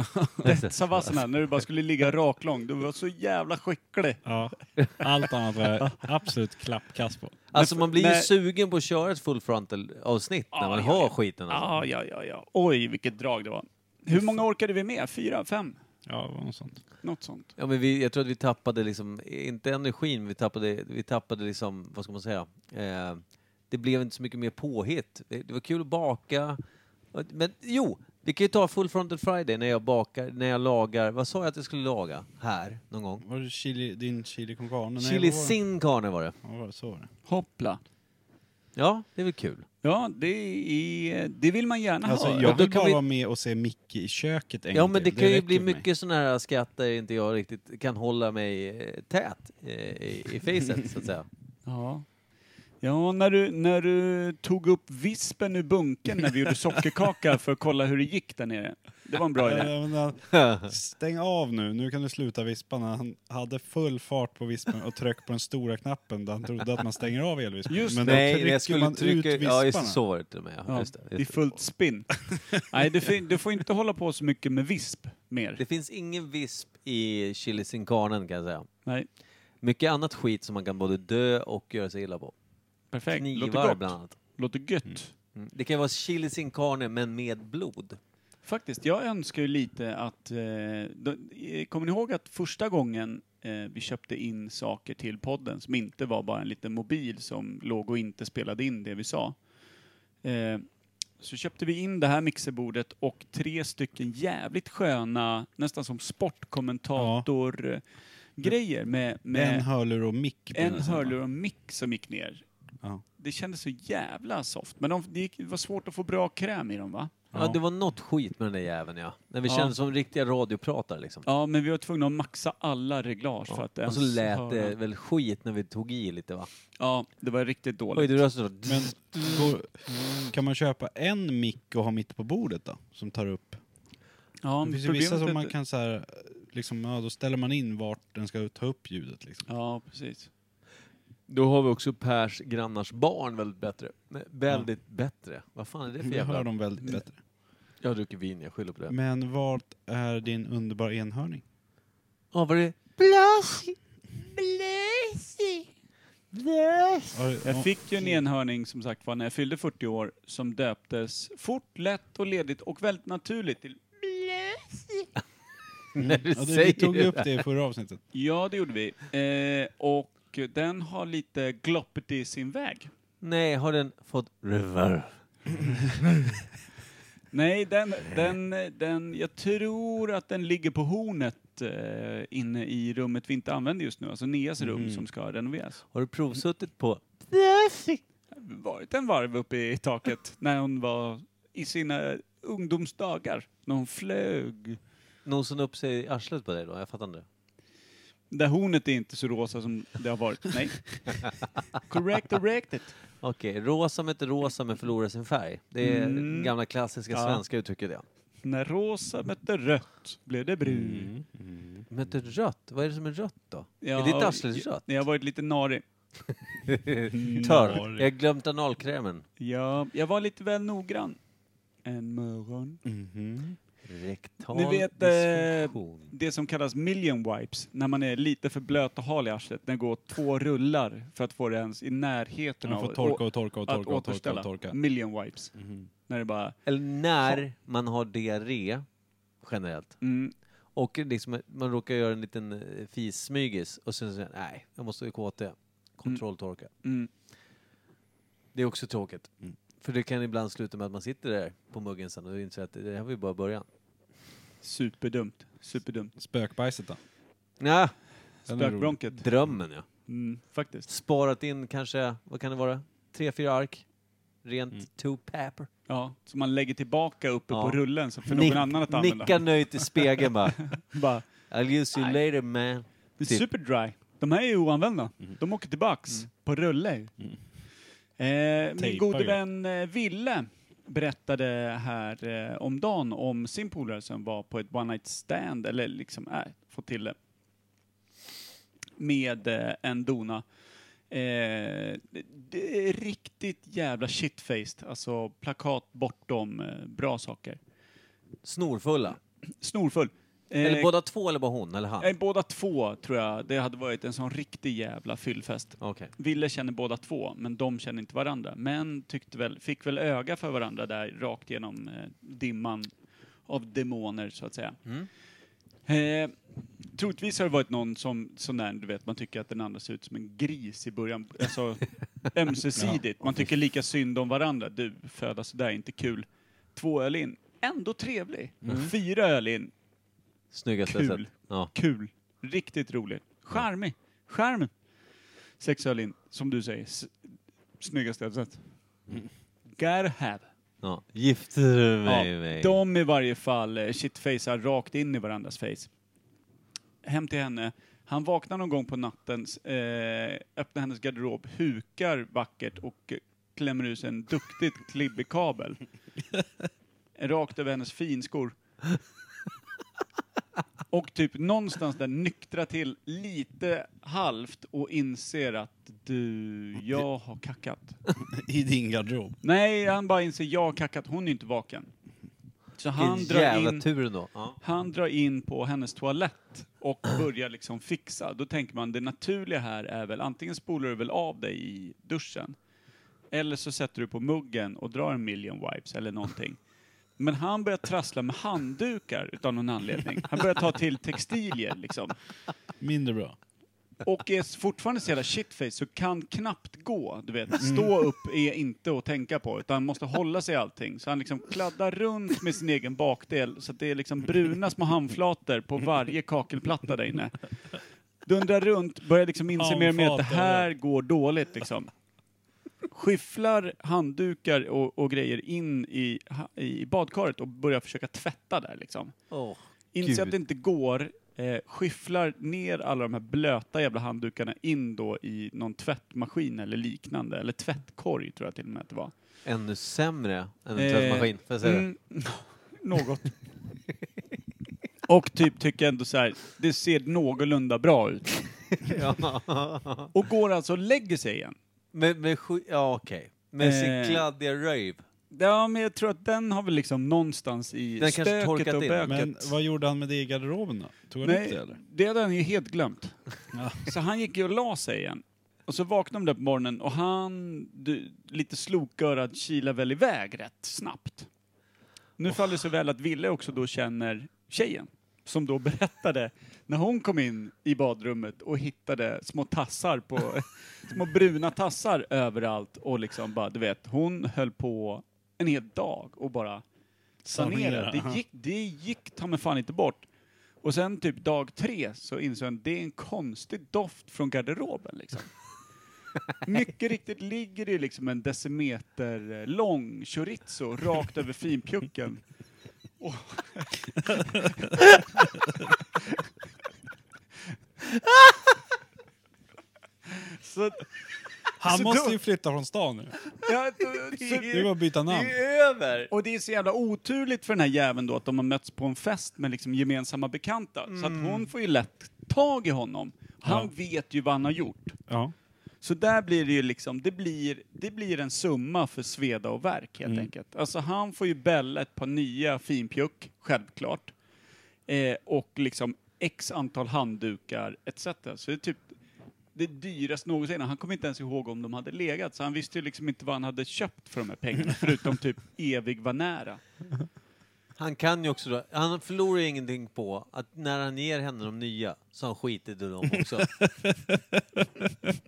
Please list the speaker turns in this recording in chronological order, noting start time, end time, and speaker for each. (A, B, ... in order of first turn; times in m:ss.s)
0:00.1-0:00.4 A
0:00.4-0:04.2 B
0:00.4-0:01.2 C
0:04.2-0:07.4 A
0:07.5-0:11.7 C
0:07.5-0:08.3 B
0:10.5-0:15.8 B
0:16.0-0:16.8 A
0:17.0-0:17.5 B
0:17.6-0:26.6 C
0:27.1-0:33.2 C
0:33.2-0:35.6 A
0:35.0-0:36.4 C
0:36.4-0:37.1 A
0:37.3-0:37.8 B
0:38.8-0:39.6 C
0:39.8-0:42.6 B
0:42.0-0:45.8 A
0:42.4-0:43.0 C
0:44.7-0:51.2 C
0:51.6-0:52.0 B
0:52.8-0:59.7 B
0:59.4-1:10.0 A
1:00.3-1:00.7 C
1:07.7-1:08.1 B
1:08.0-1:11.6 C
1:10.7-1:15.6 B
1:15.6-1:18.7 C
1:19.6-1:22.3 C
1:22.9-1:25.1 B
1:23.1-1:24.1 C
1:25.4-1:28.0 C
1:28.4-1:39.4 B
1:40.2-1:40.6 B
1:41.2-1:47.8 B
1:47.0-1:47.2 A
1:48.4-1:49.6 B
1:49.3-1:51.1 A
1:50.5-1:52.4 B
1:53.2-1:57.1 B
1:57.3-1:57.6 A
1:57.3-2:01.3 C
1:59.5-1:59.7 B
2:01.2-2:04.8 B
2:03.5-2:06.5 C
2:06.8-2:08.2 B
2:07.9-2:09.5 C
2:08.6-2:13.6 A
2:14.4-2:15.5 B
2:14.6-2:19.5 A
2:19.5-2:20.3 B
2:21.3-2:26.5 C
2:26.0-2:27.2 A
2:27.8-2:28.9 C
2:28.9-2:31.4 A
2:32.3-2:35.6 C
2:36.3-2:37.2 C
2:37.1-2:37.7 A
2:37.4-2:45.1 B
2:45.9-2:47.4 C
2:46.0-2:48.0 A
2:48.1-2:52.9 B
2:53.2-2:55.2 C
2:57.3-3:05.8 B
3:04.6-3:05.0 A
3:05.9-3:08.0 C
3:08.3-3:14.8 B
3:15.2-3:17.2 C
3:18.3-3:21.3 B
3:21.8-3:22.9 B
3:23.2-3:28.0 C
3:25.8-3:26.5 B
3:27.1-3:27.4 B
3:28.4-3:31.0 B
3:30.6-3:31.9 A
3:31.9-3:34.9 C
3:33.8-3:35.8 B
3:36.7-3:39.2 C
3:37.1-3:37.7 B
3:37.1-3:38.1 A
3:39.4-3:41.2 B
3:41.8-3:42.8 B
3:42.8-3:43.6 A
3:43.8-3:46.1 C
3:44.5-3:55.5 B
3:52.6-3:54.8 A
3:55.5-3:55.9 A
3:56.1-3:56.6 B
3:56.6-3:58.8 C
3:59.4-4:00.0 C
4:00.0-4:00.3 B
4:00.8-4:06.7 C
4:06.8-4:07.1 B
4:08.5-4:09.3 C
4:09.8-4:13.6 C
4:14.6-4:16.1 B
4:16.2-4:17.0 A
4:17.6-4:17.9 C
4:18.5-4:19.0 A
4:18.5-4:19.2 B
4:19.1-4:19.9 C
4:20.1-4:20.9 B
4:20.9-4:23.8 C
4:24.4-4:25.7 C
4:25.9-4:29.4 B
4:27.5-4:30.7 C
4:30.7-4:31.2 B
4:31.5-4:33.4 C
4:33.2-4:37.1 B
4:38.2-4:47.1 B
4:38.8-4:39.4 A
4:49.0-4:50.4 B
4:51.1-4:57.6 B
4:58.4-4:59.2 C
4:59.6-5:00.9 B
5:00.6-5:02.1 C
5:02.0-5:12.9 B
5:05.8-5:06.1 C
5:13.5-5:14.8 B
5:15.9-5:16.3 B
5:16.9-5:29.7 B
5:28.6-5:28.9 A
5:30.5-5:31.7 C
5:30.9-5:34.7 B
5:35.6-5:38.6 B
5:39.8-5:40.5 B
5:40.8-5:42.8 C
5:42.0-5:45.9 B
5:47.0-5:55.8 B
5:57.2-5:58.5 B
6:00.9-6:08.0 B
6:08.2-6:09.4 A
6:09.4-6:11.9 B
6:12.8-6:13.9 B
6:13.0-6:14.6 C
6:14.6-6:22.6 B
6:23.3-6:26.6 B
6:27.2-6:32.1 B
6:32.8-6:33.4 A
6:34.0-6:47.4 B
6:37.6-6:37.9 A
6:48.2-6:51.9 B
6:49.5-6:50.7 A
6:52.9-6:59.1 B
6:59.3-7:00.4 C
6:59.9-7:09.1 B
7:09.4-7:11.9 C
7:10.8-7:13.3 B
7:15.1-7:18.5 B
7:18.8-7:20.1 C
7:20.1-7:21.6 B
7:21.9-7:25.0 C
7:23.6-7:24.2 B
7:25.3-7:29.5 B
7:28.0-7:29.2 C
7:29.0-7:31.8 A
7:31.2-7:33.2 B
7:33.5-7:33.9 A
7:33.8-7:41.3 B
7:42.2-7:56.6 B
7:57.2-8:00.0 B
7:57.2-7:58.2 A
8:00.6-8:05.3 B
8:06.4-8:12.2 B
8:13.0-8:14.8 B
8:18.0-8:18.5 C
8:20.1-8:20.9 B
8:21.6-8:23.2 A
8:21.6-8:22.1 B
8:23.4-8:24.7 B
8:24.3-8:26.1 C
8:24.4-8:25.4 A
8:26.1-8:35.0 B
8:30.9-8:31.5 C
8:33.4-8:33.7 A
8:35.1-8:35.3 A
8:35.8-8:44.1 B
8:40.0-8:40.3 A
8:44.9-8:49.0 B
8:49.5-8:56.6 B
8:57.8-9:03.5 C
9:03.2-9:05.2 A